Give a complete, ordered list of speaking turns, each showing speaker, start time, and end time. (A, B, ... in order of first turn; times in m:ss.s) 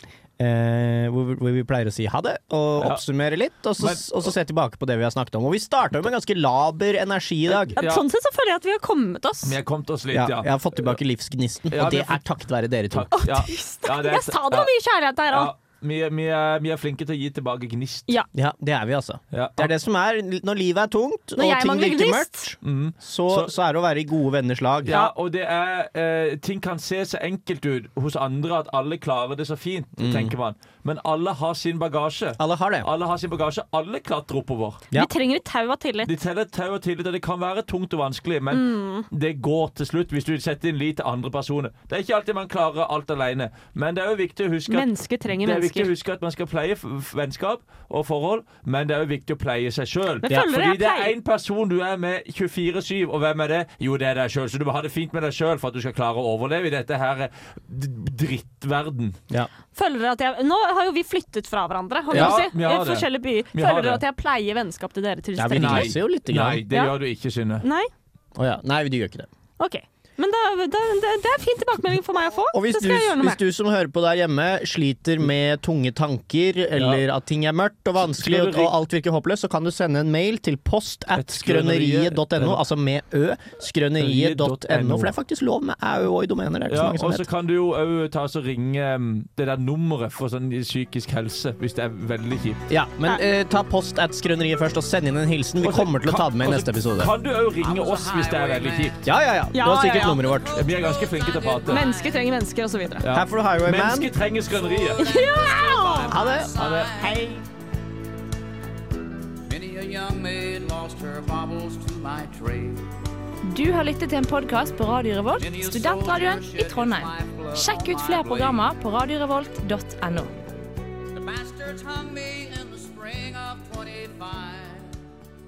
0:00.4-0:07.8 A
0:02.8-0:03.0 B
0:03.8-0:04.2 B
0:07.5-0:09.6 C
0:07.8-0:08.0 B
0:09.4-0:11.0 B
0:10.1-0:13.2 A
0:11.7-0:12.2 B
0:12.9-0:14.7 B
0:13.1-0:15.5 C
0:15.3-0:18.1 B
0:18.3-0:25.0 A
0:19.3-0:19.7 B
0:21.4-0:22.5 C
0:22.6-0:23.5 B
0:24.8-0:34.8 B
0:30.0-0:30.3 A
0:32.4-0:32.9 A
0:34.9-0:36.2 C
0:36.0-0:44.9 B
0:38.5-0:39.1 C
0:44.7-0:45.9 C
0:45.4-0:59.2 B
0:50.2-0:51.1 C
0:59.7-1:06.0 C
1:02.1-1:04.0 B
1:02.1-1:02.4 A
1:05.4-1:06.6 A
1:05.5-1:07.6 B
1:06.7-1:07.0 C
1:07.6-1:07.9 C
1:08.4-1:09.3 A
1:09.6-1:13.4 C
1:12.5-1:27.3 A
1:16.7-1:17.0 B
1:18.1-1:18.7 B
1:21.1-1:22.6 B
1:24.0-1:25.2 B
1:26.7-1:32.6 B
1:32.7-1:37.1 A
1:35.6-1:39.0 B
1:37.4-1:39.2 D
1:39.0-1:40.5 A
1:39.5-1:40.2 C
1:39.9-1:42.5 D
1:40.5-1:41.9 B
1:41.7-1:43.0 C
1:43.0-1:45.0 B
1:43.1-1:44.1 A
1:44.4-1:47.3 D
1:45.0-1:46.2 C
1:46.1-1:46.5 A
1:46.6-1:46.9 B
1:47.0-1:47.4 C
1:49.5-1:52.9 D
1:53.4-2:00.3 E
1:55.4-1:58.6 D
2:01.1-2:04.9 D